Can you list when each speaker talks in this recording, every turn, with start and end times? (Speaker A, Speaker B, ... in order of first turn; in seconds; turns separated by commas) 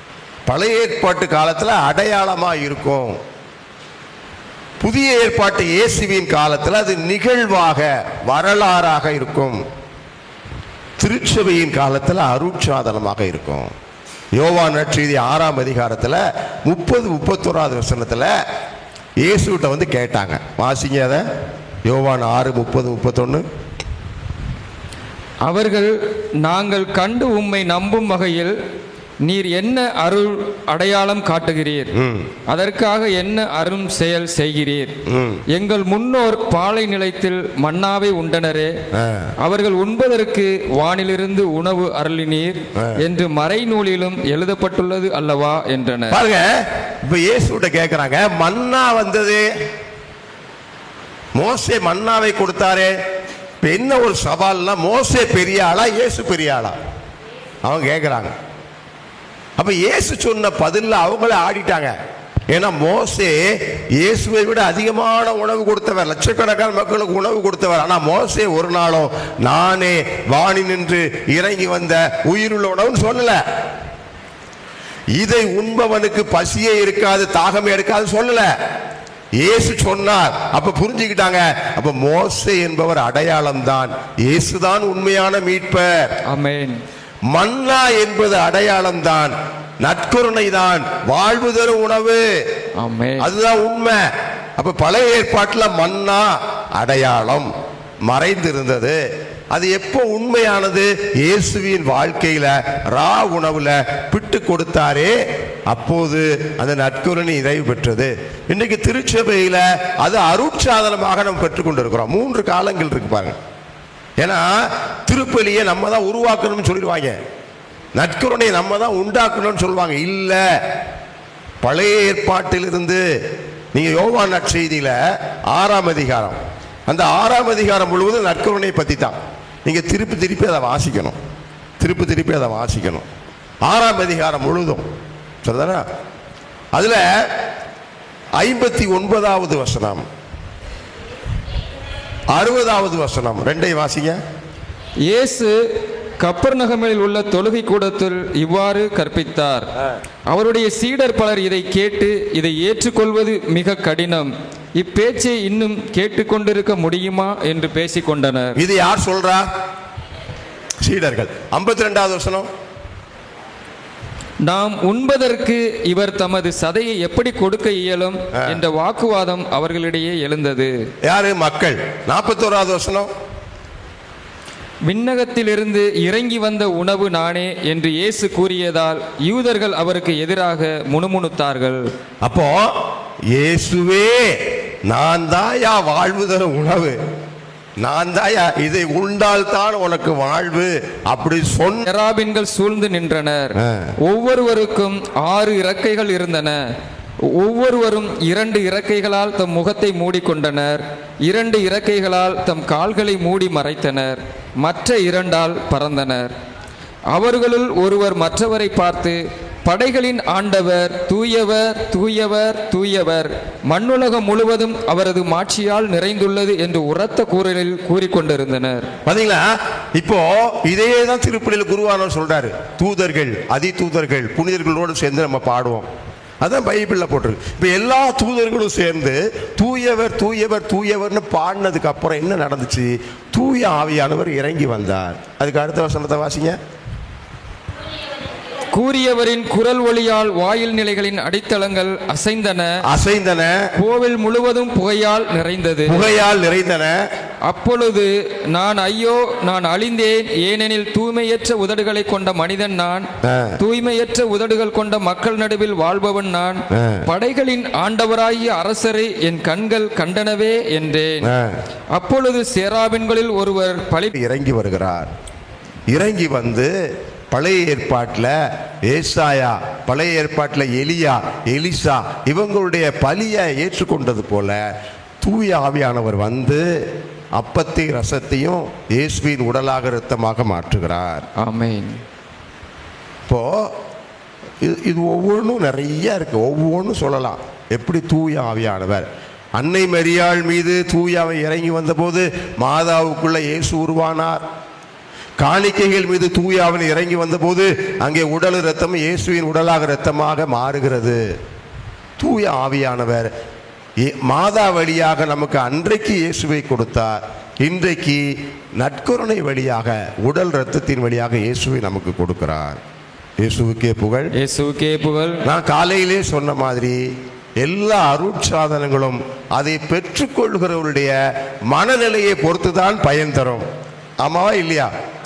Speaker A: 0.5-3.2, Speaker A: 4.8-9.6, Speaker A: 11.0-13.7, Speaker A: 14.4-18.3, Speaker A: 19.2-21.2, Speaker A: 21.9-23.4, Speaker B: 25.5-28.6, Speaker B: 29.2-31.9, Speaker A: 31.9-32.3, Speaker B: 32.5-34.9, Speaker A: 35.1-35.4, Speaker B: 35.5-38.8, Speaker A: 38.9-39.3, Speaker B: 39.4-46.2, Speaker A: 42.8-43.0, Speaker A: 46.1-49.5, Speaker A: 51.4-52.9, Speaker A: 53.6-56.8, Speaker A: 57.6-58.4, Speaker A: 59.6-61.9, Speaker A: 62.5-73.4, Speaker A: 75.2-78.5, Speaker A: 79.4-86.1, Speaker B: 86.3-86.8, Speaker A: 87.3-92.2, Speaker B: 92.8-93.3, Speaker A: 93.2-97.5, Speaker A: 98.0-99.0, Speaker A: 99.5-105.1, Speaker A: 105.7-113.4, Speaker A: 114.2-117.2, Speaker A: 118.0-120.4, Speaker A: 121.6-123.0, Speaker A: 123.7-125.0, Speaker A: 125.5-131.2, Speaker A: 131.8-133.1, Speaker A: 133.6-134.9, Speaker A: 135.4-135.8, Speaker A: 136.8-137.3, Speaker A: 138.4-140.1, Speaker A: 142.3-144.2, Speaker B: 145.1-145.6, Speaker B: 146.2-149.7, Speaker B: 150.3-158.6, Speaker A: 158.6-159.5, Speaker A: 160.8-162.5, Speaker B: 164.4-170.8, Speaker A: 171.1-173.1, Speaker B: 174.8-181.9, Speaker A: 182.2-187.0, Speaker A: 187.8-191.8, Speaker B: 191.8-196.6, Speaker A: 193.6-193.9, Speaker B: 197.2-206.3, Speaker B: 207.1-218.9, Speaker A: 219.1-225.9, Speaker A: 226.4-236.6, Speaker B: 238.7-242.8, Speaker A: 242.8-243.7, Speaker B: 243.8-246.1, Speaker A: 245.8-247.0, Speaker B: 247.5-253.1, Speaker A: 253.2-253.6, Speaker B: 253.6-261.3, Speaker A: 256.7-257.1, Speaker A: 261.2-261.6, Speaker B: 261.9-264.1, Speaker A: 264.1-265.1, Speaker A: 265.9-266.7, Speaker A: 267.3-274.6, Speaker A: 275.2-276.8, Speaker A: 277.3-281.2, Speaker B: 281.4-282.0, Speaker A: 283.3-283.7, Speaker A: 284.6-289.1, Speaker A: 289.6-294.4, Speaker A: 295.4-301.3, Speaker A: 302.2-303.3, Speaker A: 304.0-312.8, Speaker A: 313.4-314.3, Speaker B: 314.3-315.4, Speaker A: 315.4-321.2, Speaker A: 321.7-323.7, Speaker A: 324.2-324.9